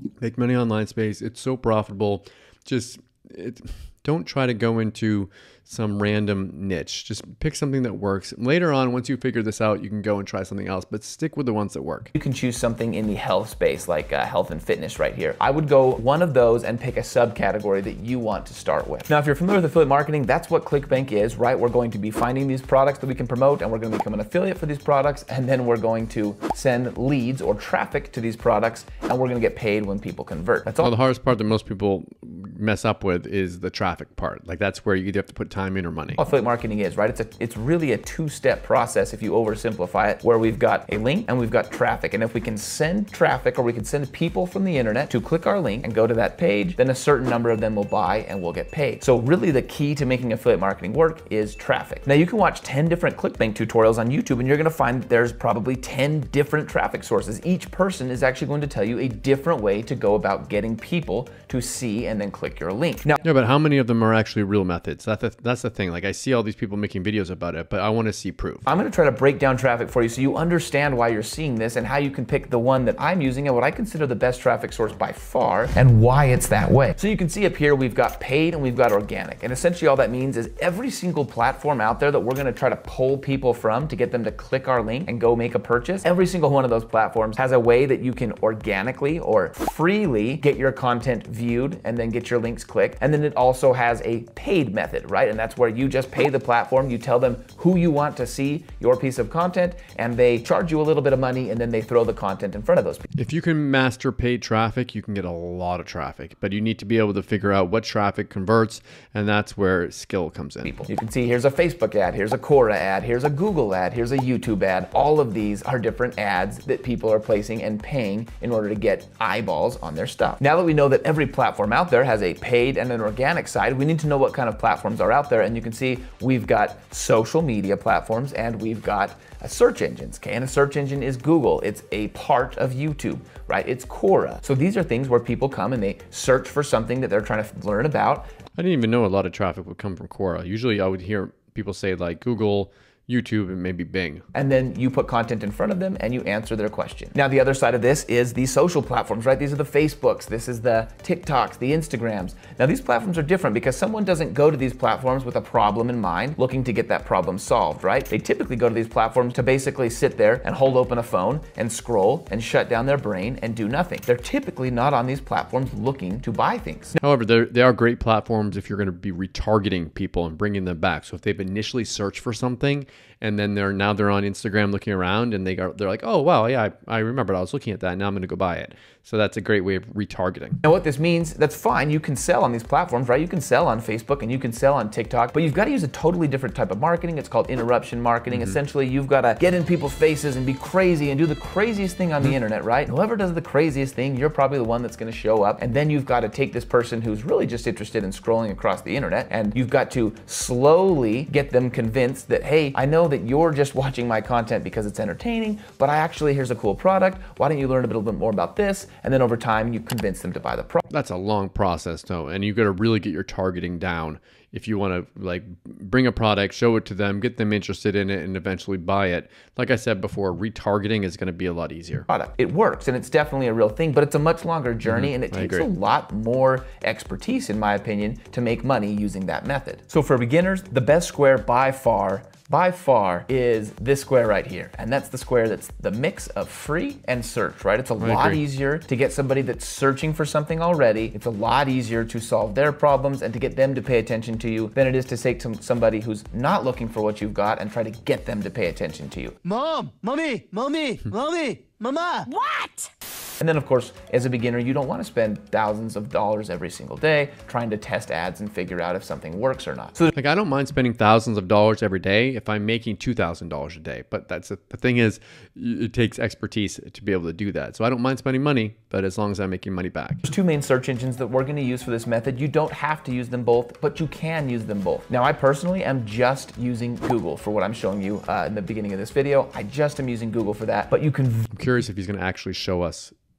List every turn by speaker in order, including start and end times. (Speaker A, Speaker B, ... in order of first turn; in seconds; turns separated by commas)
Speaker A: 0.2-12.1, Speaker B: 12.2-30.9, Speaker A: 30.8-36.2, Speaker B: 36.2-63.2, Speaker A: 63.2-68.7, Speaker B: 68.7-103.1, Speaker A: 103.2-110.7, Speaker B: 110.7-138.3, Speaker A: 138.6-144.3, Speaker B: 144.3-167.0, Speaker A: 167.0-180.6, Speaker B: 180.6-210.8, Speaker A: 210.9-222.1, Speaker B: 222.1-249.4, Speaker A: 224.9-225.7, Speaker A: 238.0-238.4, Speaker C: 249.4-252.9, Speaker B: 253.4-260.1, Speaker A: 260.1-270.2, Speaker B: 270.2-281.5, Speaker A: 281.5-283.1